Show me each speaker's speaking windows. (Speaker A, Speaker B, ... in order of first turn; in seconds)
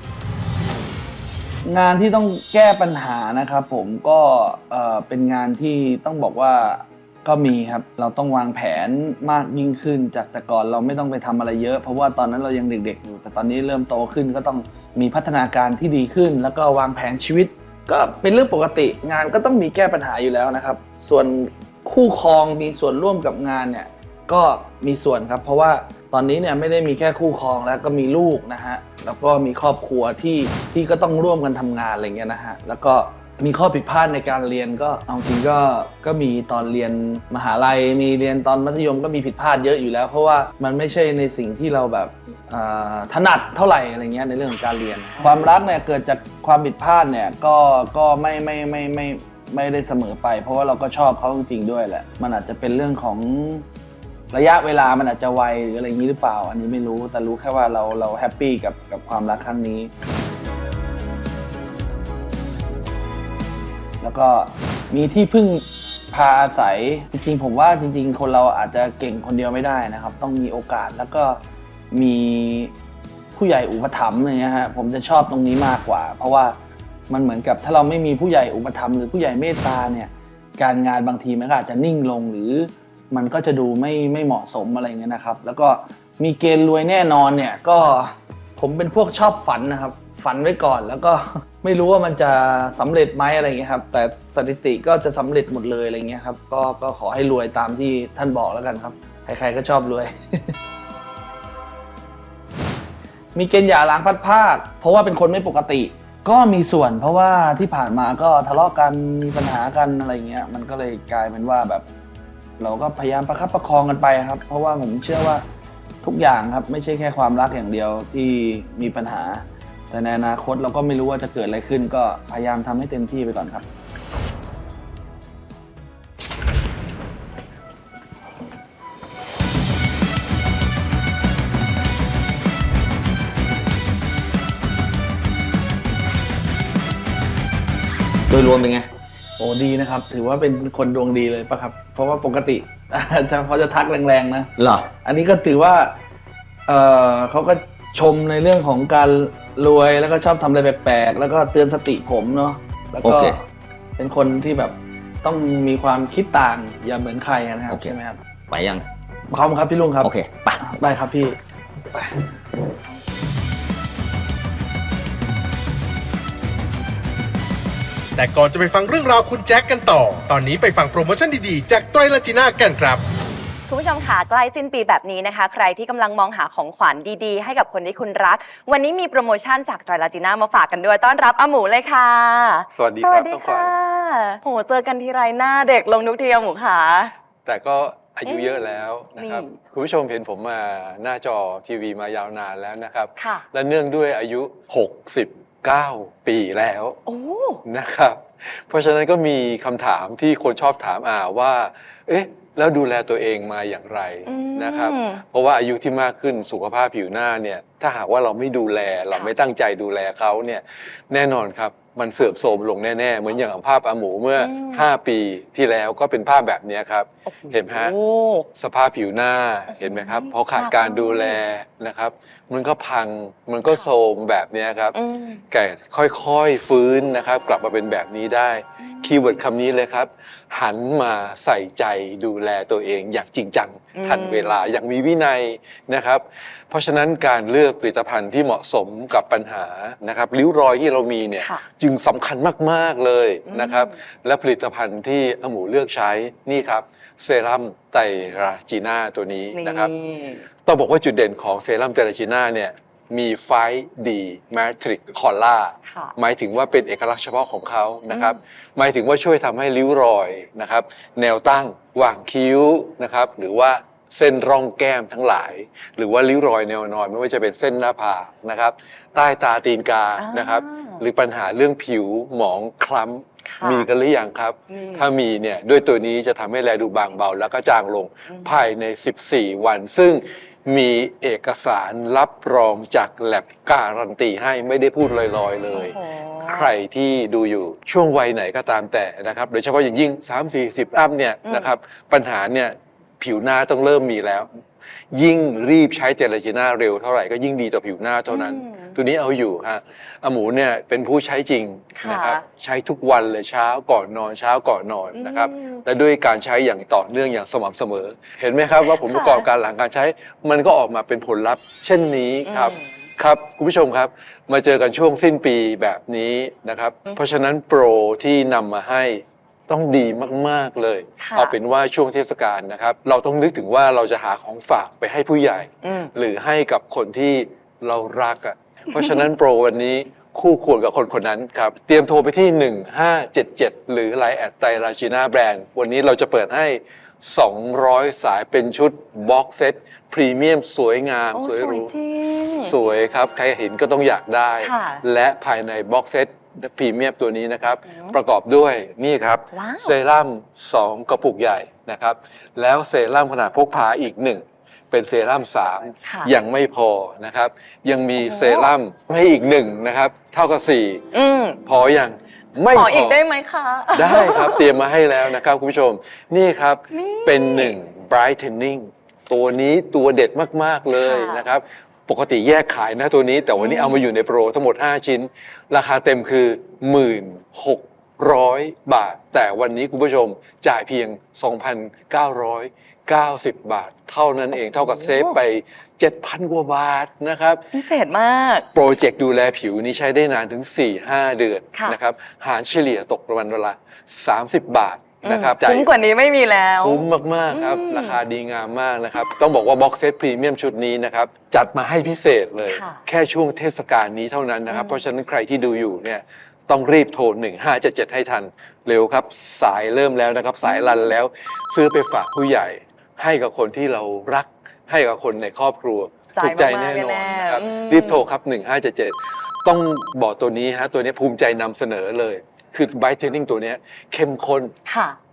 Speaker A: 1.6-53.6, 54.3-59.9, 64.0-71.4, 71.9-72.7, 73.3-76.6, 77.1-100.5, 103.3-111.8, 112.6-115.4, 116.0-123.7, 139.4-144.5, 145.0-146.0, 146.7-153.4, 154.0-158.2, 159.3-161.4, 161.9-162.3
Speaker B: 138.3-138.9, 144.6-144.9, 153.0-153.4, 157.7-157.9, 158.5-158.9, 160.0-160.6
Speaker C: 168.2-173.0
Speaker D: 173.7-187.1, 188.2-189.5, 193.2-193.4, 197.1-197.6, 204.2-205.2, 214.4-214.9, 217.3-218.5, 219.7-221.4, 224.9-225.4, 228.8-229.3, 233.9-234.6, 241.3-241.6, 243.5-243.9, 249.5-250.4, 255.8-256.1, 258.1-258.4, 270.2-271.0, 273.5-273.9, 274.7-275.1, 285.7-286.7, 298.3-299.0, 302.0-302.4, 305.1-305.8, 309.1-309.4, 312.4-312.9, 321.2-321.5, 325.8-326.1, 341.3-342.7, 344.6-345.0, 347.9-348.1, 349.5-349.9, 356.0-356.3, 358.1-358.7, 361.1-361.6, 362.7-364.7, 366.9-367.8, 370.9-371.4, 373.6-374.1, 384.7-385.4, 387.7-388.7, 395.2-398.2, 402.6-403.0, 404.7-405.0, 410.6-411.0, 416.3-418.2, 424.9-425.2
Speaker E: 182.7-183.7, 187.4-197.0, 197.7-217.9, 218.6-224.9, 225.5-249.9, 250.6-294.5, 295.1-341.9, 342.6-361.0, 361.6-363.2, 363.9-387.7, 388.7-395.9, 396.8-424.7